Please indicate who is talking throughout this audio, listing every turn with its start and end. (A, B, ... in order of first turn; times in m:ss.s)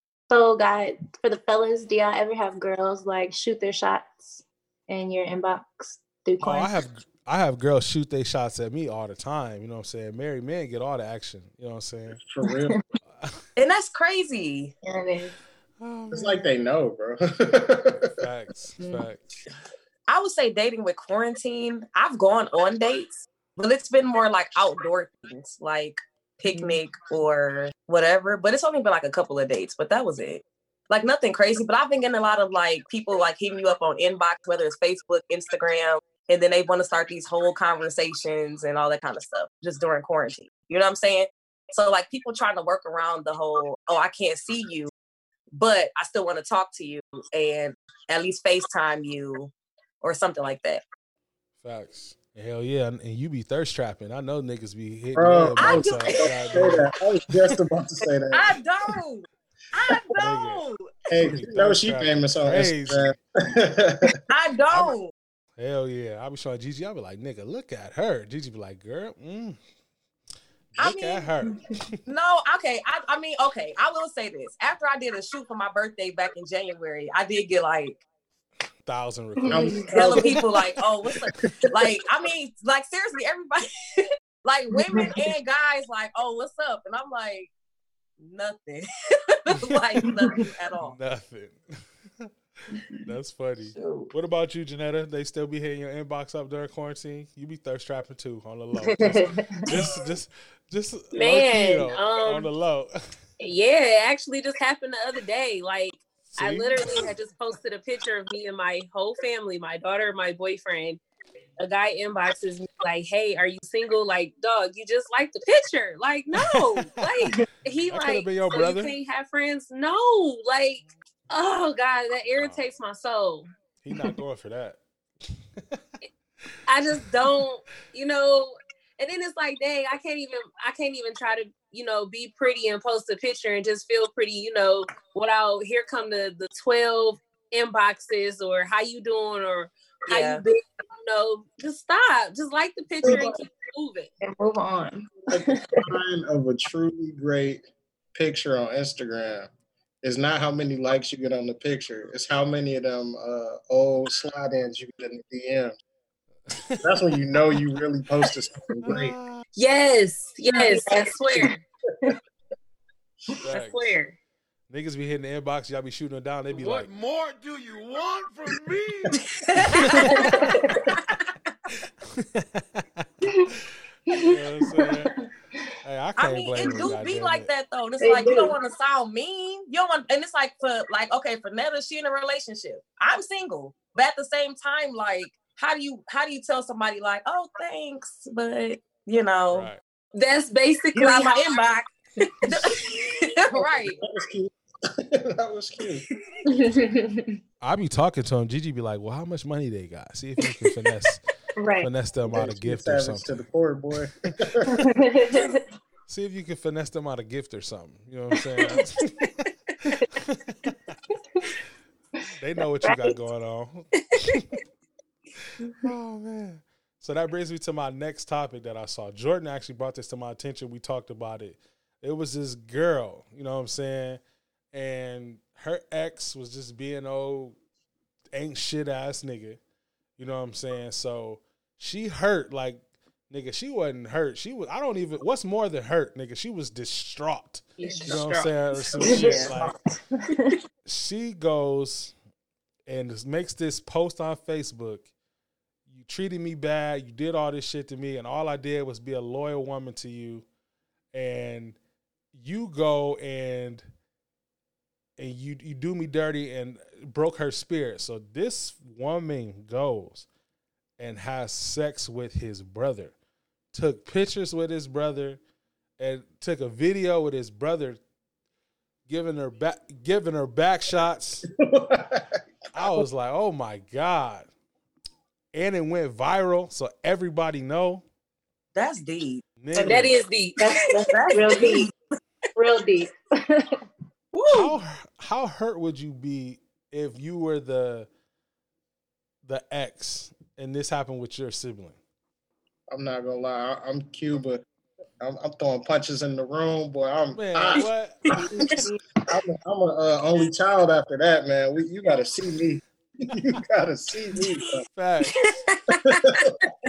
0:00.3-0:06.8 A
0:06.4-0:12.2 B
0:12.1-0:12.8 C
0:12.4-0:12.8 A
0:13.6-0:14.7 D
0:14.8-0:15.3 A
0:15.8-0:16.5 B
0:16.1-0:18.2 C
0:18.1-0:19.2 B
0:18.8-0:19.1 A
0:20.1-0:44.9 D
0:26.5-0:26.8 A
0:45.5-0:50.8 D
0:51.6-0:56.9 B
0:55.1-0:58.5 C
0:55.6-0:56.8 D
0:58.3-1:01.1 D
1:00.2-1:00.6 B
1:01.1-1:04.1 C
1:01.2-1:03.1 B
1:04.3-1:05.1 D
1:05.6-1:09.6 B
1:10.7-1:12.0 B
1:10.8-1:11.3 D
1:12.1-1:18.0 D
1:18.8-1:20.3 B
1:19.4-1:20.2 A
1:19.4-1:20.5 C
1:19.9-1:27.5 D
1:21.6-1:21.9 C
1:24.8-1:25.2 A
1:28.2-1:31.0 D
1:29.5-1:30.0 B
1:30.8-1:31.6 B
1:32.2-1:42.9 B
1:32.7-1:33.0 A
1:33.8-1:34.1 D
1:38.8-1:40.0 A
1:41.1-1:42.5 E
1:43.4-1:51.0 E
1:46.2-1:47.1 B
1:51.6-2:03.5 E
1:56.3-1:57.3 B
1:57.9-1:58.9 B
2:03.8-2:05.8 B
2:06.6-2:24.1 E
2:20.1-2:20.4 D
2:23.0-2:23.4 A
2:24.2-2:25.9 A
2:25.3-2:27.6 C
2:28.1-2:29.5 C
2:30.0-2:35.7 C
2:36.5-2:36.9 B
2:36.8-2:39.1 C
2:38.8-2:39.4 B
2:39.6-2:41.6 E
2:40.5-2:41.5 A
2:43.4-2:43.8 B
2:43.5-2:44.2 E
2:44.7-2:46.9 B
2:46.5-2:50.8 F
2:49.8-2:50.3 B
2:49.9-2:50.8 A
2:52.1-2:53.6 B
2:54.1-2:55.1 A
2:54.1-2:55.1 B
2:55.8-2:57.5 B
2:56.2-3:09.7 D
2:58.0-2:58.5 A
3:09.5-3:09.8 B
3:10.1-3:11.5 E
3:10.9-3:11.9 D
3:12.4-3:14.0 D
3:13.6-3:16.0 C
3:16.4-3:17.4 A
3:17.6-3:21.2 B
3:21.6-3:21.9 A
3:21.8-3:23.3 B
3:22.3-3:24.9 C
3:24.7-3:25.6 A
3:26.1-3:31.0 B
3:28.6-3:28.8 A
3:32.4-3:34.6 B
3:32.8-3:33.2 A
3:34.1-3:34.4 E
3:35.4-3:44.2 B
3:44.7-3:47.6 B
3:48.3-3:49.6 B
3:50.2-3:59.7 B
3:57.8-3:59.3 E
3:57.8-3:58.2 A
3:58.9-4:00.6 A
3:59.1-3:59.5 D
4:00.8-4:02.1 B
4:02.9-4:05.1 B
4:05.9-4:10.4 B
4:11.1-4:11.8 B
4:12.3-4:13.9 B
4:15.2-4:20.3 B
4:21.0-4:23.1 B
4:23.7-4:25.4 B
4:26.0-4:28.0 B
4:29.1-4:31.4 B
4:31.5-4:33.0 C
4:32.7-4:34.5 B
4:35.5-4:38.0 B
4:38.7-4:39.4 D
4:39.6-4:40.2 B
4:39.8-4:41.8 E
4:40.6-4:41.9 A
4:41.3-4:41.8 D
4:42.5-4:43.8 A
4:44.3-4:44.8 D
4:44.5-4:48.1 B
4:49.4-4:52.0 B
4:52.9-4:54.6 C
4:55.2-5:04.8 C
4:57.3-4:58.9 B
4:58.3-4:58.9 A
5:05.0-5:05.5 B
5:05.9-5:06.5 C